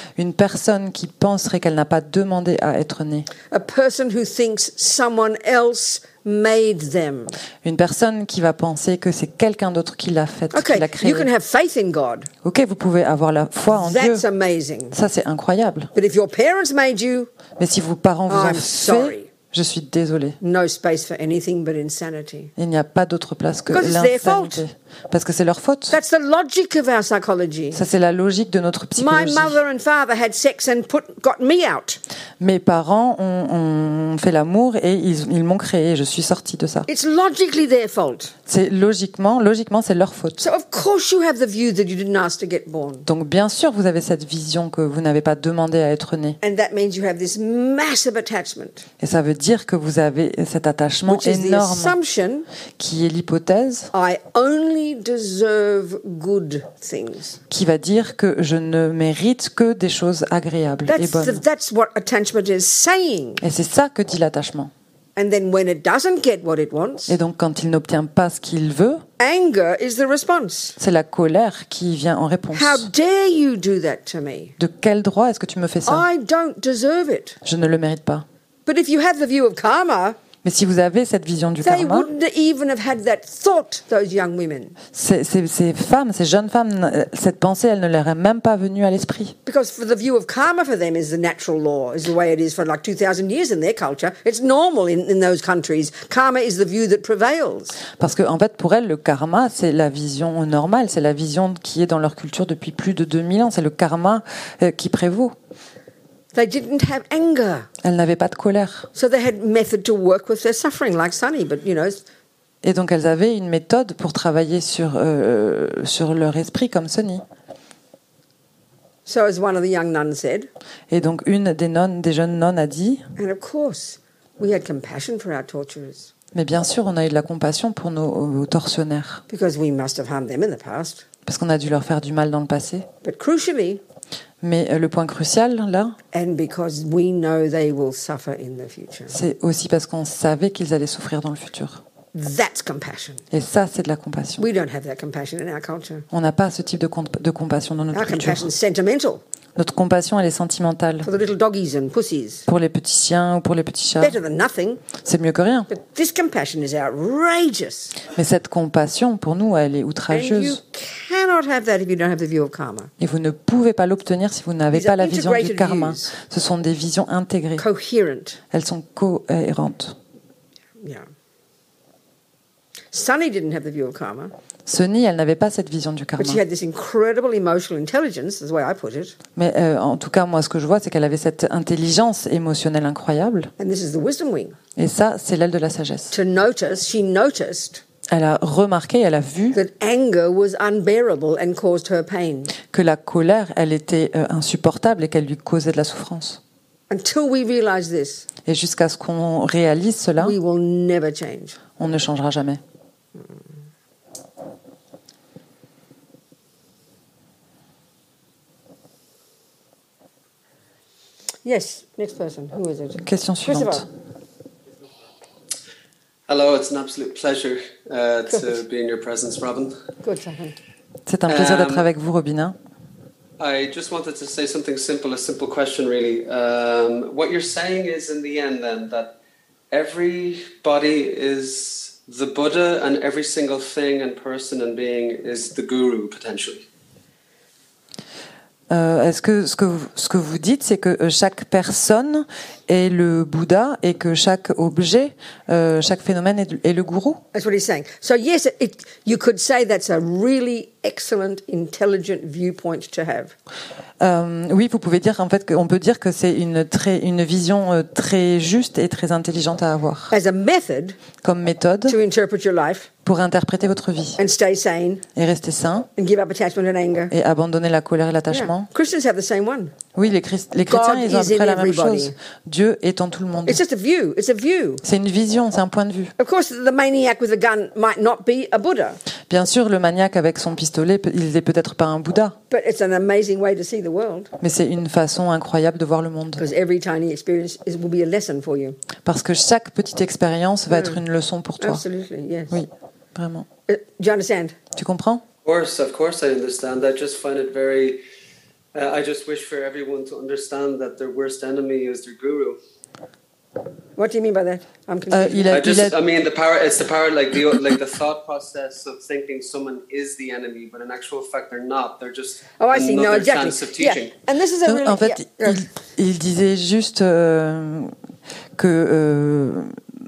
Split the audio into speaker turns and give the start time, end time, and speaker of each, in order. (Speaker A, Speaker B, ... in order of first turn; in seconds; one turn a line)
Speaker A: 0.1-3.3
Speaker B: 3.5-7.3
Speaker A: 7.6-11.3
Speaker B: 10.5-12.3
Speaker A: 12.4-14.2
Speaker B: 13.7-14.9
Speaker A: 14.9-15.9
Speaker B: 15.9-17.3
Speaker A: 17.6-20.4
Speaker B: 18.3-19.3
Speaker B: 20.4-22.5
Speaker A: 22.6-26.0
Speaker B: 23.7-24.6
Speaker B: 25.9-27.8
Speaker A: 27.7-29.6
Speaker B: 29.0-32.0
Speaker A: 32.4-36.9
Speaker B: 36.9-38.3
Speaker A: 38.5-40.4
Speaker B: 40.4-43.0
Speaker A: 43.0-46.4
Speaker B: 46.4-48.9
Speaker A: 49.0-52.0
Speaker B: 51.1-52.5
Speaker A: 52.8-53.9
Speaker B: 53.9-57.4
Speaker A: 57.5-61.4
Speaker B: 60.9-63.4
Speaker A: 63.4-64.7
Speaker B: 65.2-67.2
Speaker A: 67.1-69.0
Speaker B: 69.2-70.8
Speaker A: 70.8-72.9
Speaker B: 72.5-74.5
Speaker A: 74.6-76.0
Speaker B: 75.8-77.4
Speaker A: 77.4-78.2
Speaker B: 78.7-80.2
Speaker A: 80.4-82.1
Speaker B: 81.6-84.8
Speaker A: 84.9-89.3
Speaker B: 89.5-97.8
Speaker A: 98.0-105.3
Speaker B: 106.3-107.7
Speaker A: 107.8-108.9
Speaker B: 108.9-112.0
Speaker A: 112.6-117.2
Speaker B: 119.0-120.5
Speaker A: 120.9-123.0
Speaker B: 123.2-126.1
Speaker A: 126.3-129.2
Speaker B: 129.3-131.0
Speaker A: 131.2-132.9
Speaker B: 133.0-133.8
Speaker A: 134.4-136.0
Speaker B: 136.1-139.2
Speaker A: 139.1-141.8
Speaker B: 142.1-143.2
Speaker A: 143.3-144.4
Speaker B: 144.4-146.1
Speaker A: 146.1-148.5
Speaker B: 147.9-149.2
Speaker A: 149.6-151.1
Speaker B: 151.0-152.4
Speaker A: 152.5-154.2
Speaker B: 154.0-154.8
Speaker A: 155.0-155.7
Speaker B: 155.7-158.0
Speaker A: 158.1-160.6
Speaker B: 160.1-162.9
Speaker A: 163.0-167.6
Speaker B: 164.7-166.1
Speaker B: 167.6-168.4
Speaker A: 168.5-170.0
Speaker B: 170.8-171.1
Speaker B: 172.9-174.3
Speaker A: 174.7-176.4
Speaker B: 176.2-179.1
Speaker A: 179.3-183.5
Speaker B: 183.6-184.6
Speaker A: 184.8-186.2
Speaker B: 186.1-187.8
Speaker A: 188.1-189.6
Speaker B: 189.5-192.5
Speaker A: 192.7-196.4
Speaker B: 196.9-198.3
Speaker A: 198.4-200.4
Speaker B: 200.2-201.6
Speaker A: 201.8-202.6
Speaker B: 211.4-213.9
Speaker A: 213.0-213.9
Speaker C: 216.3-219.8
Speaker B: 218.3-218.6
Speaker B: 220.0-220.6
Speaker A: 221.1-222.6
Speaker C: 221.3-221.8
Speaker C: 223.4-229.1
Speaker C: 229.7-236.7
Speaker A: 238.7-247.2
Speaker B: 247.3-253.3
Speaker A: 254.0-260.1
Speaker B: 260.1-261.0
Speaker A: 261.2-262.0
Speaker B: 261.9-262.9
Speaker A: 263.0-264.2
Speaker B: 264.2-265.0
Speaker A: 265.1-265.9
Speaker B: 266.0-267.1
Speaker A: 267.1-268.7
Speaker B: 268.3-269.7
Speaker A: 269.9-273.6
Speaker B: 270.7-272.1
Speaker B: 273.4-274.8
Speaker A: 274.8-276.1
Speaker B: 276.2-279.0
Speaker A: 279.3-282.4
Speaker B: 282.5-284.3
Speaker A: 284.4-286.4
Speaker B: 286.4-288.8
Speaker A: 289.0-291.8
Speaker B: 290.7-291.0
Speaker B: 291.6-292.6
Speaker A: 292.5-293.5
Speaker B: 293.7-294.5
Speaker A: 294.7-295.2
Speaker C: 295.4-298.0
Speaker C: 298.7-302.6
Speaker B: 304.0-305.7
Speaker A: 305.1-306.0
Speaker C: 305.5-314.1
Speaker B: 312.6-315.7
Speaker A: 314.6-317.9
Speaker A: 318.6-319.8